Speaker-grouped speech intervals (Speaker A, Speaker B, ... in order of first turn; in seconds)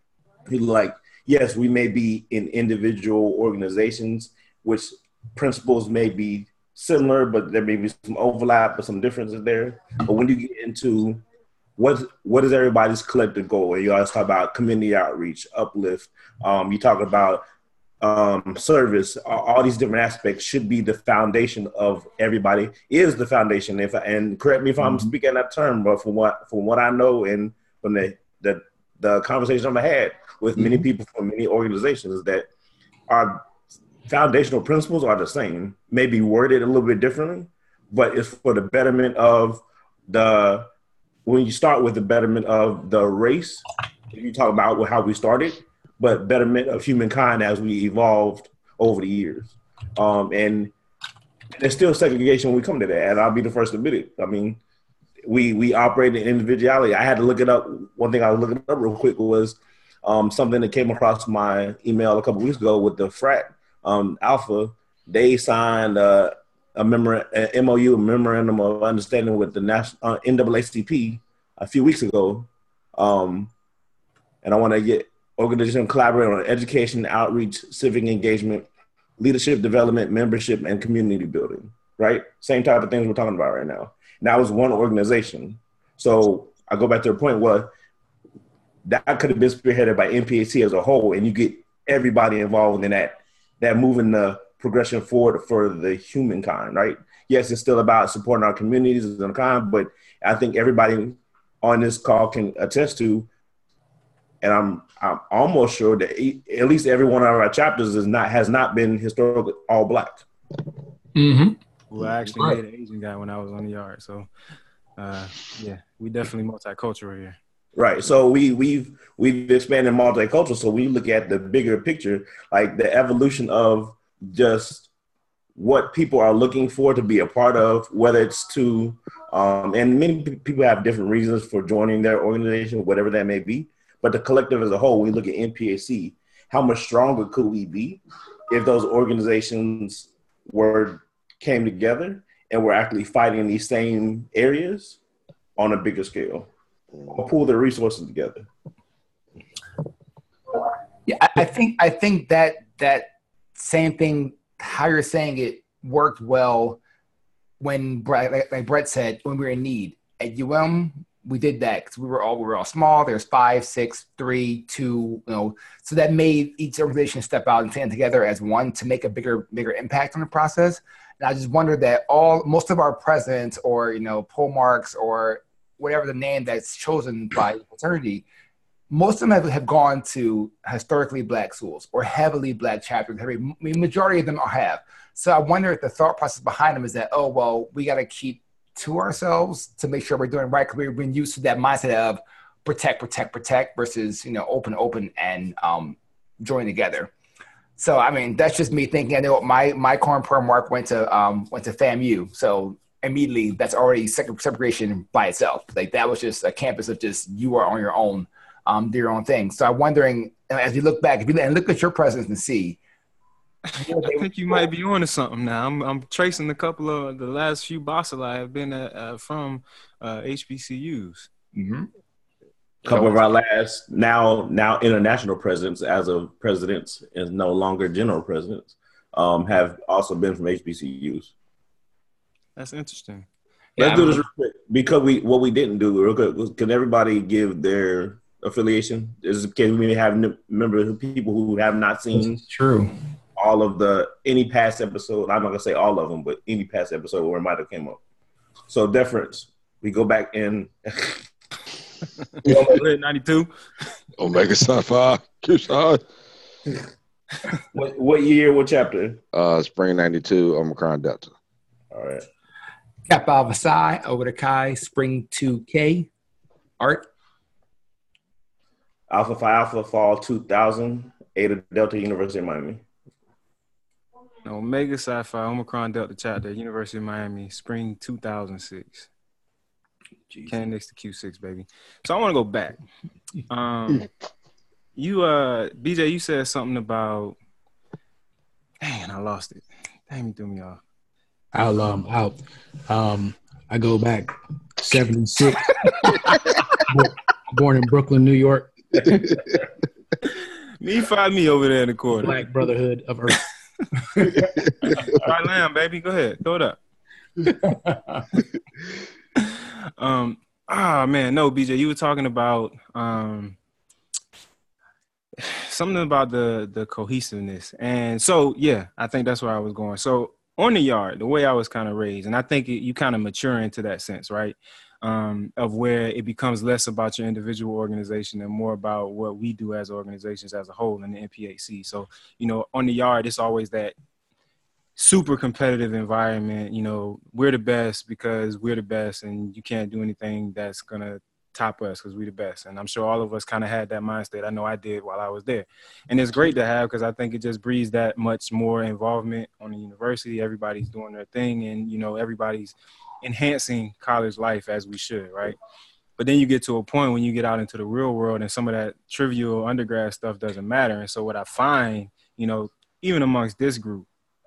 Speaker A: 0.5-11.2, 11.8-17.4, 18.0-32.5, 33.1-33.5, 34.1-40.7, 41.2-50.7, 51.5-54.6, 55.3-73.5, 74.4-78.7, 79.2-87.7, 88.8-103.3, 104.4-110.2, 117.8-124.9, 125.6-145.0, 145.6-146.5, 147.1-148.4, 222.8-231.3, 233.8-242.4, 243.4-248.0, 248.7-251.2, 257.7-259.2, 261.9-262.2, 269.1-272.8
Speaker B: 24.8-25.1, 30.6-30.8, 111.2-111.6, 112.3-112.6, 151.1-156.8, 157.6-178.3, 178.9-197.1, 197.8-212.8, 213.8-214.7, 221.5-221.9, 233.8-234.3, 242.2-242.9, 263.1-266.1, 266.8-267.1, 304.2-304.5, 307.5-308.3
Speaker C: 111.9-114.3, 115.0-117.4, 213.9-221.3, 232.6-233.3, 252.4-253.5, 274.4-279.1, 280.5-282.8, 283.5-284.1, 285.0-287.4, 288.8-290.8, 300.8-302.4, 304.9-306.8, 309.4-313.6, 315.4-333.9, 335.0-355.6, 356.2-364.1
Speaker D: 254.2-256.0, 259.3-261.4
Speaker E: 291.5-296.2, 296.8-299.1, 302.2-303.4